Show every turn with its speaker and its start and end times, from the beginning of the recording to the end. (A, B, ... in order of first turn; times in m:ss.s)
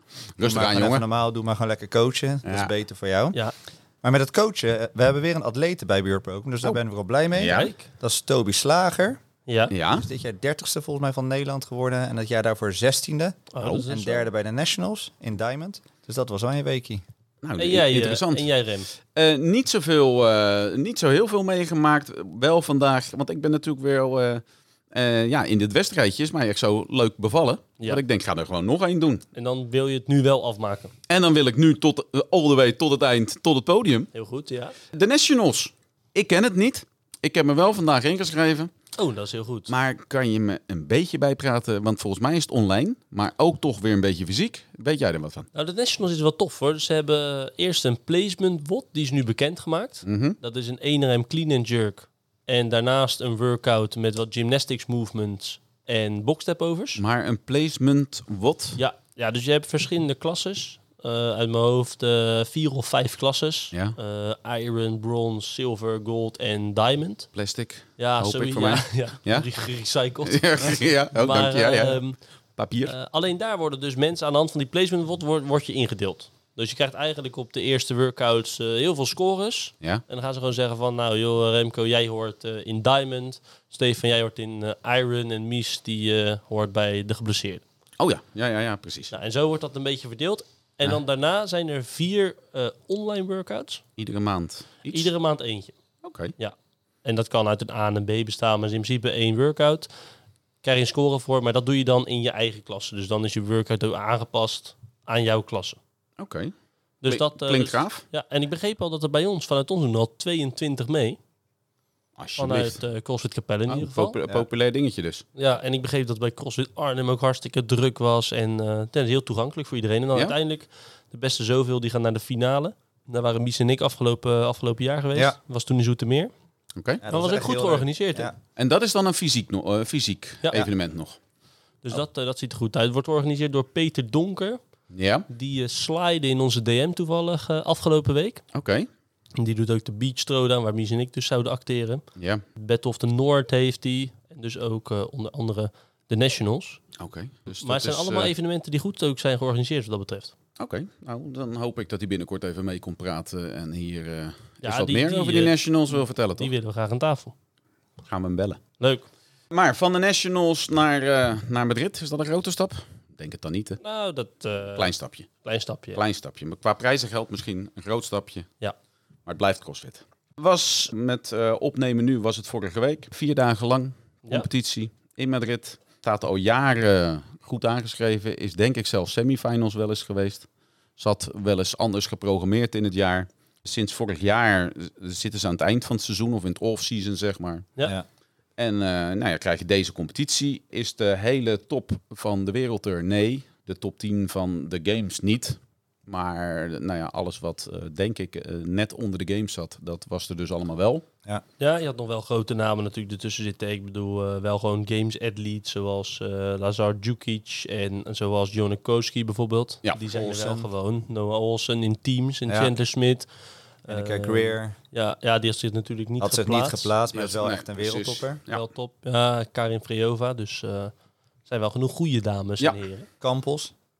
0:00.4-0:01.0 A
0:00.4-0:03.4 B
0:02.4-0:02.7 A
0:04.0-0:09.2 B
0:07.3-0:07.7 A
0:07.4-0:07.9 C
0:09.5-0:09.7 C
0:09.7-0:10.0 A
0:09.9-0:17.0 B
0:13.5-0:14.3 C
0:17.4-0:18.5 A
0:17.6-0:18.9 C
0:19.1-0:29.2 A
0:29.3-0:30.9 C
0:31.1-0:34.1 A
0:34.1-0:34.8 C
0:34.9-0:38.7 A
0:39.0-0:39.7 C
0:39.7-0:45.5 A
0:45.5-0:57.0 C
0:50.0-0:50.4 A
0:57.0-0:58.8 A
0:58.8-1:07.3 C
1:07.3-1:09.5 A
1:08.0-1:12.2 C
1:10.2-1:12.0 A
1:12.6-1:12.9 A
1:12.8-1:27.6 C
1:28.0-1:29.1 A
1:29.1-1:33.8 C
1:34.0-1:35.1 A
1:34.9-1:35.7 C
1:36.0-1:36.3 A
1:36.4-1:39.9 C
1:40.6-1:45.8 C
1:46.2-1:46.5 A
1:47.0-1:51.2 C
1:47.1-1:48.0 A
1:52.2-1:52.8 A
1:52.4-1:54.2 C
1:53.7-1:55.2 A
1:55.4-2:06.3 C
2:06.7-2:07.0 A
2:07.0-2:08.4 B
2:07.1-2:08.3 C
2:08.6-2:11.2 A
2:10.4-2:10.7 C
2:11.8-2:14.6 C
2:14.9-2:15.3 A
2:15.3-2:18.4 C
2:18.5-2:18.9 A
2:19.4-2:22.0 C
2:22.2-2:22.4 A
2:22.5-2:26.8 C
2:27.0-2:28.3 A
2:27.6-2:30.3 C
2:30.6-2:36.5 A
2:34.6-2:37.3 C
2:38.1-2:38.6 A
2:38.8-2:39.1 C
2:39.5-2:43.8 A
2:43.8-2:46.0 C
2:44.8-2:45.3 A
2:45.9-2:48.5 A
2:49.2-3:00.5 A
3:01.0-3:07.7 A
3:08.6-3:21.0 A
3:21.6-3:33.3 C
3:30.1-3:30.7 B
3:32.5-3:32.7 B
3:33.8-3:36.9 C
3:33.9-3:34.7 B
3:36.2-3:38.4 B
3:37.1-3:38.6 A
3:38.5-3:40.9 C
3:41.4-3:43.1 C
3:43.2-3:43.7 B